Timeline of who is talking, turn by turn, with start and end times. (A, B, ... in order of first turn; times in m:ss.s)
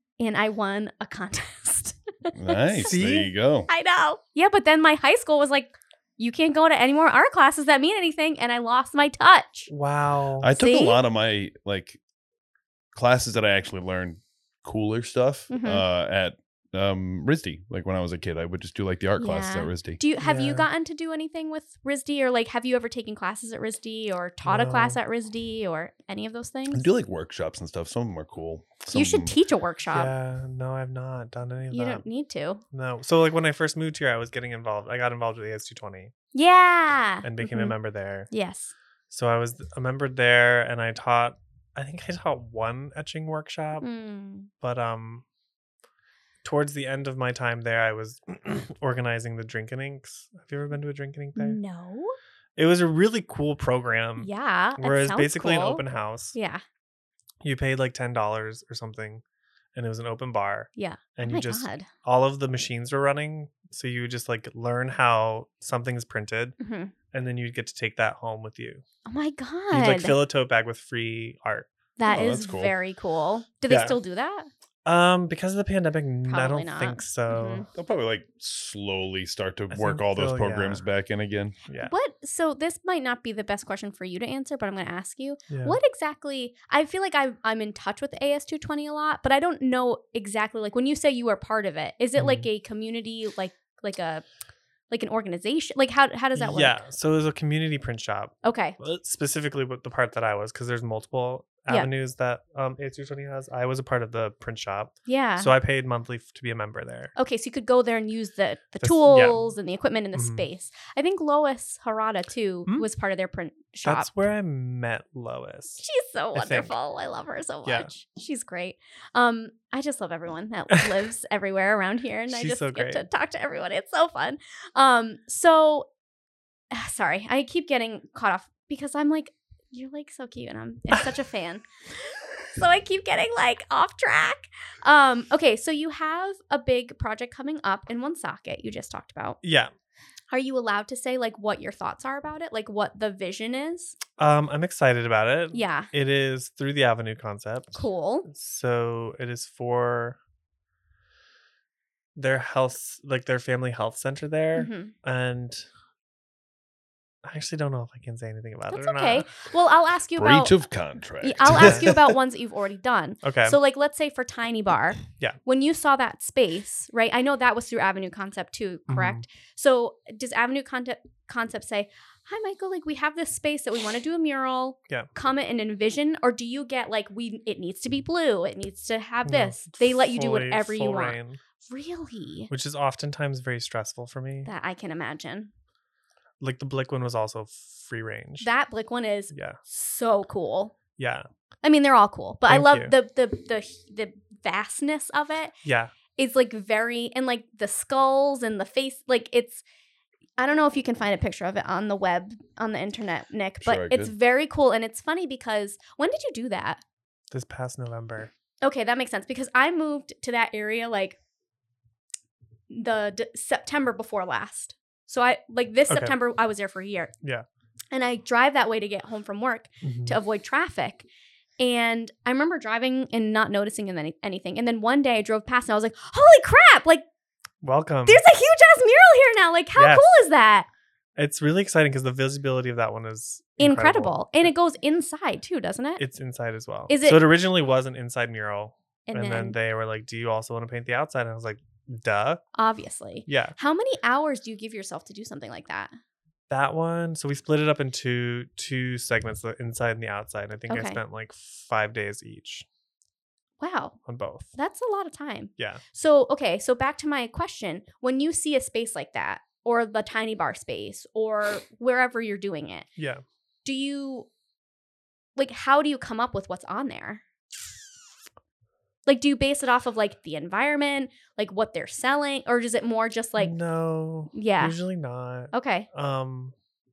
0:00.2-0:02.9 A
0:02.3-0:03.7 B
0:02.9-0:03.3 C
0:03.7-0:09.7 A
0:09.7-0:10.5 C
0:10.4-0:12.0 B
0:10.5-0:11.0 A
0:12.9-0:20.0 B
0:15.5-0:15.8 A
0:19.2-0:26.9 A
0:20.2-0:20.7 C
0:24.4-0:25.0 C
0:26.7-0:29.4 B
0:28.9-0:30.1 A
0:29.9-0:32.0 C
0:31.7-0:32.6 A
0:32.7-0:36.1 C
0:36.3-0:37.7 A
0:37.2-0:38.3 C
0:38.3-0:38.7 A
0:39.1-0:43.8 C
0:43.8-0:44.5 A
0:44.6-0:45.2 C
0:46.4-0:51.6 C
0:51.4-0:52.2 A
0:52.6-0:56.4 C
0:54.2-0:55.8 A
0:56.3-0:56.6 A
0:57.4-0:59.2 C
0:59.8-1:06.6 C
1:00.8-1:01.9 A
1:06.6-1:06.9 A
1:07.1-1:08.8 C
1:09.1-1:10.2 A
1:09.7-1:11.7 C
1:12.0-1:14.5 A
1:12.1-1:12.8 B
1:13.7-1:14.0 C
1:14.8-1:17.7 C
1:16.3-1:17.7 A
1:17.7-1:21.6 B
1:19.7-1:20.9 C
1:21.7-1:21.9 C
1:21.8-1:34.2 A
1:25.5-1:25.8 C
1:32.2-1:32.5 C
1:34.9-1:36.8 A
1:36.4-1:47.1 C
1:38.4-1:38.8 A
1:45.1-1:45.5 A
1:47.2-1:54.1 A
1:48.8-1:49.5 C
1:50.2-1:50.5 C
1:53.8-1:55.8 C
1:55.8-2:05.9 A
1:56.4-1:56.7 C
2:02.3-2:03.1 C
2:06.7-2:11.6 A
2:12.6-2:19.4 A
2:19.4-2:19.7 C
2:20.3-2:24.0 A
2:24.2-2:30.2 C
2:25.5-2:25.9 A
2:27.7-2:28.3 A
2:32.2-2:35.7 C
2:34.6-2:34.9 A
2:37.2-2:39.3 C
2:38.7-2:40.6 A
2:40.2-2:42.2 B
2:41.2-3:02.5 A
2:41.5-2:41.9 C
2:43.2-2:43.6 C
2:48.9-2:49.2 C
2:59.3-3:01.4 C
3:02.5-3:04.5 C
3:04.4-3:05.5 A
3:06.4-3:08.5 C
3:08.4-3:10.8 A
3:09.3-3:09.6 C
3:11.0-3:11.3 C
3:11.6-3:15.5 A
3:12.5-3:12.9 C
3:15.6-3:15.9 C
3:16.2-3:19.6 A
3:20.4-3:26.8 A
3:23.6-3:24.1 B
3:27.3-3:28.3 C
3:28.6-3:31.2 A
3:32.7-3:37.1 A
3:35.9-3:36.2 C
3:37.9-3:41.1 A
3:39.8-3:40.2 C
3:41.6-3:47.0 A
3:47.6-3:48.2 C
3:48.1-3:50.7 A
3:49.8-3:50.1 C
3:51.2-3:54.5 C
3:53.6-3:56.0 A
3:56.0-4:02.4 C
3:56.9-3:57.2 A
3:59.1-3:59.6 A
4:02.6-4:05.9 A
4:03.3-4:03.6 C
4:06.5-4:12.6 C
4:10.7-4:11.0 A
4:13.6-4:14.0 A
4:14.1-4:14.5 C
4:14.6-4:22.9 A
4:15.6-4:15.8 C
4:23.0-4:23.2 C
4:23.6-4:24.3 A
4:25.4-4:27.2 A
4:29.1-4:33.6 A
4:33.4-4:36.5 C
4:34.3-4:34.8 A
4:35.5-4:35.9 A